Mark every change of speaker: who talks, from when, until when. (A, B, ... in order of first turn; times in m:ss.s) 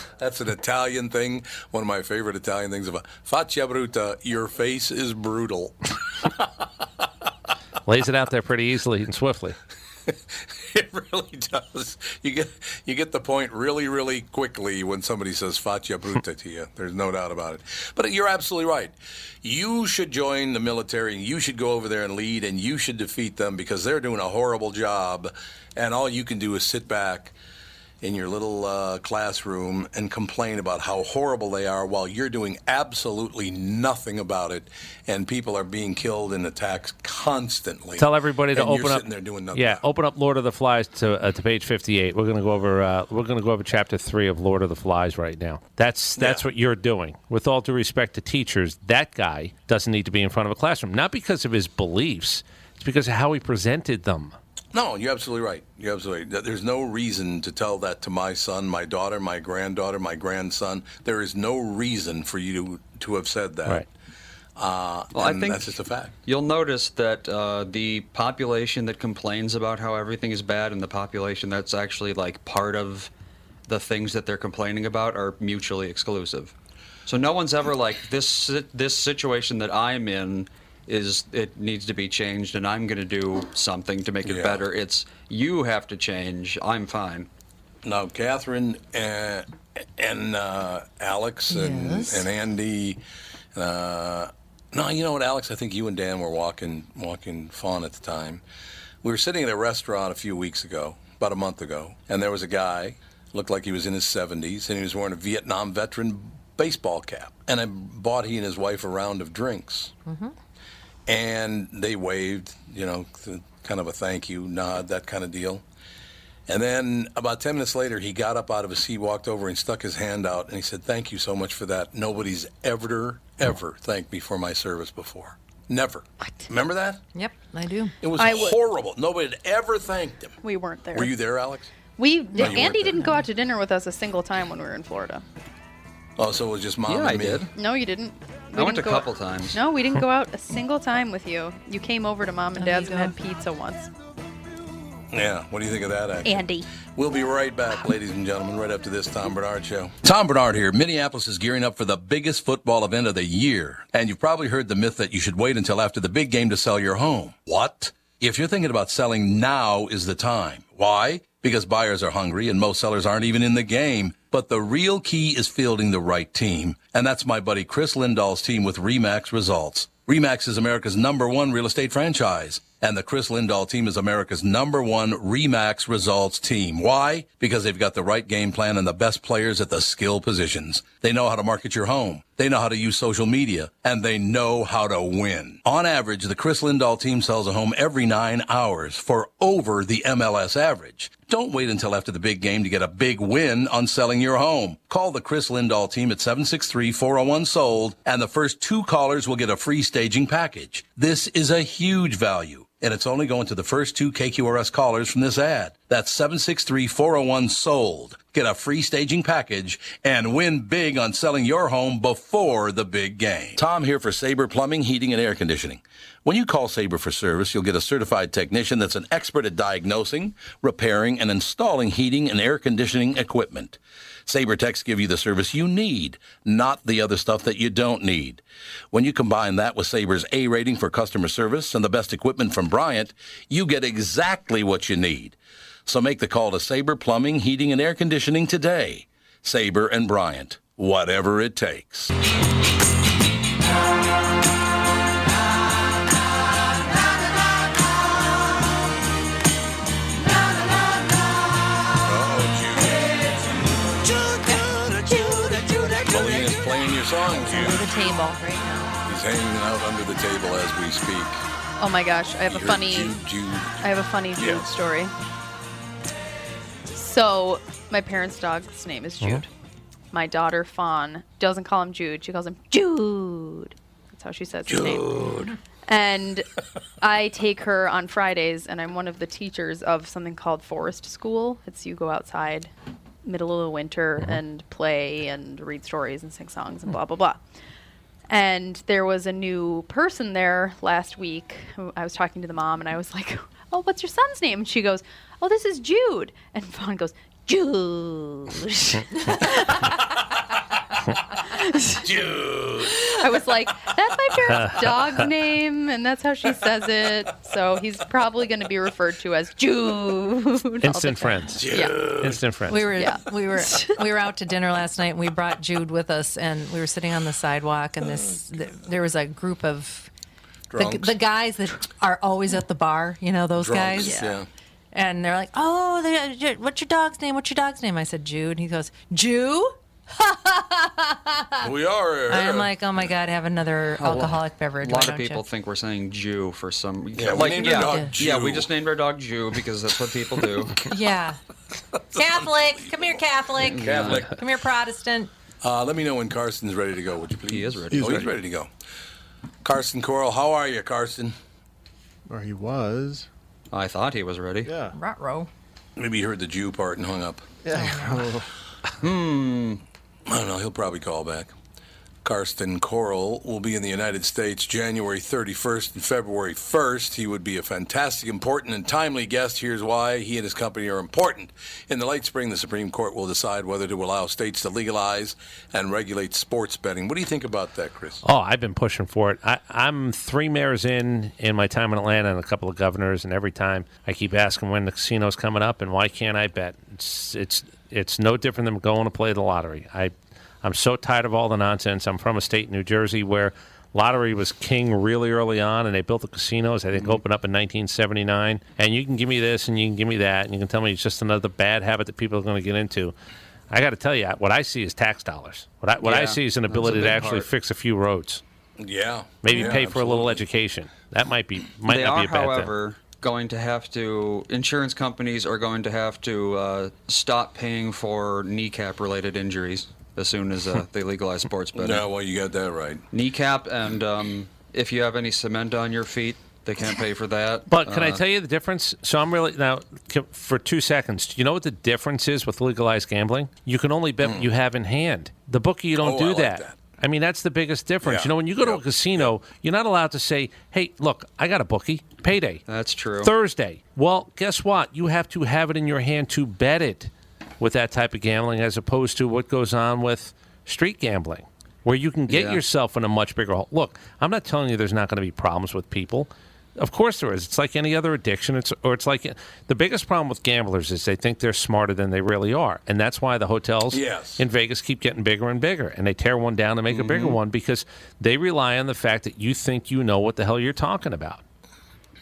0:00.2-0:06.3 A
0:07.9-0:09.6 B
0:10.1-0:27.3 A
0:28.0-0:39.8 A
0:38.0-0:54.4 B
0:46.2-0:46.4 A
0:54.7-1:03.8 A
1:04.6-1:06.1 A
1:05.1-1:13.1 C
1:13.7-1:16.5 C
1:17.1-1:27.3 C
1:24.2-1:24.6 A
1:27.8-1:33.0 A
1:31.5-1:32.3 D
1:33.6-1:38.4 A
1:39.0-1:49.9 A
1:50.1-1:50.3 D
1:51.1-1:55.6 A
1:56.5-2:07.0 A
2:07.1-2:08.0 D
2:08.0-2:10.4 A
2:08.2-2:08.6 E
2:10.4-2:11.1 E
2:10.9-2:11.7 A
2:12.0-2:15.2 E
2:12.4-2:13.2 D
2:12.4-2:13.1 A
2:16.2-2:17.4 A
2:16.9-2:17.5 C
2:17.6-2:23.9 E
2:18.5-2:19.6 C
2:22.6-2:23.2 D
2:25.1-4:02.1 A
2:26.2-2:26.7 E
4:12.0-4:13.3 A
4:15.3-4:15.8 D
4:16.0-4:17.9 A
4:17.3-4:19.0 D
4:19.1-4:21.4 A
4:21.8-4:23.2 E
4:22.5-4:24.7 A
4:23.8-4:25.1 E
4:27.0-4:29.5 E
4:30.1-4:35.2 E
4:34.7-4:35.5 A
4:35.9-4:36.5 E
4:37.0-4:42.7 E
4:43.2-4:47.4 E
4:48.3-5:00.0 E
5:01.5-5:02.0 E
5:02.0-5:03.0 A
5:03.0-5:12.0 E
5:04.5-5:05.0 B
5:10.8-5:12.8 B
5:11.6-5:12.4 A
5:12.7-5:20.1 D
5:13.0-5:14.0 E
5:20.7-5:21.2 A
5:20.8-5:24.3 D
5:23.6-5:24.5 A
5:24.0-5:24.4 E
5:24.9-5:31.7 D
5:31.6-5:32.7 A
5:32.3-5:35.4 D
5:34.0-5:40.8 C
5:37.2-5:38.7 A
5:37.6-5:38.2 D
5:40.9-5:41.4 D
5:42.1-5:45.3 D
5:42.2-5:42.9 A
5:43.6-5:44.3 C
5:43.6-5:44.3 A
5:45.6-5:48.7 A
5:47.5-5:48.3 C
5:47.9-5:48.3 F
5:49.6-5:51.4 A
5:52.3-5:53.3 F
5:53.7-5:54.7 C
5:54.7-5:55.0 F
5:54.9-5:55.5 D
5:56.0-5:57.5 A
5:57.6-5:58.5 F
5:57.7-5:58.3 D
5:59.0-5:59.8 C
6:00.3-6:01.5 A
6:02.2-6:18.2 A
6:18.2-6:43.1 B
6:43.7-6:48.4 B
6:46.0-6:47.5 C
6:48.8-6:50.4 A
6:49.4-6:52.7 B
6:51.9-7:02.1 C
7:01.8-7:03.0 A
7:03.1-7:08.2 C
7:07.7-7:22.6 B
7:14.2-7:14.5 A
7:16.0-7:16.8 A
7:18.0-7:19.3 A
7:22.7-7:23.3 C
7:23.2-7:51.4 B
7:32.3-7:32.6 C
7:43.9-7:44.4 A
7:46.9-7:47.4 C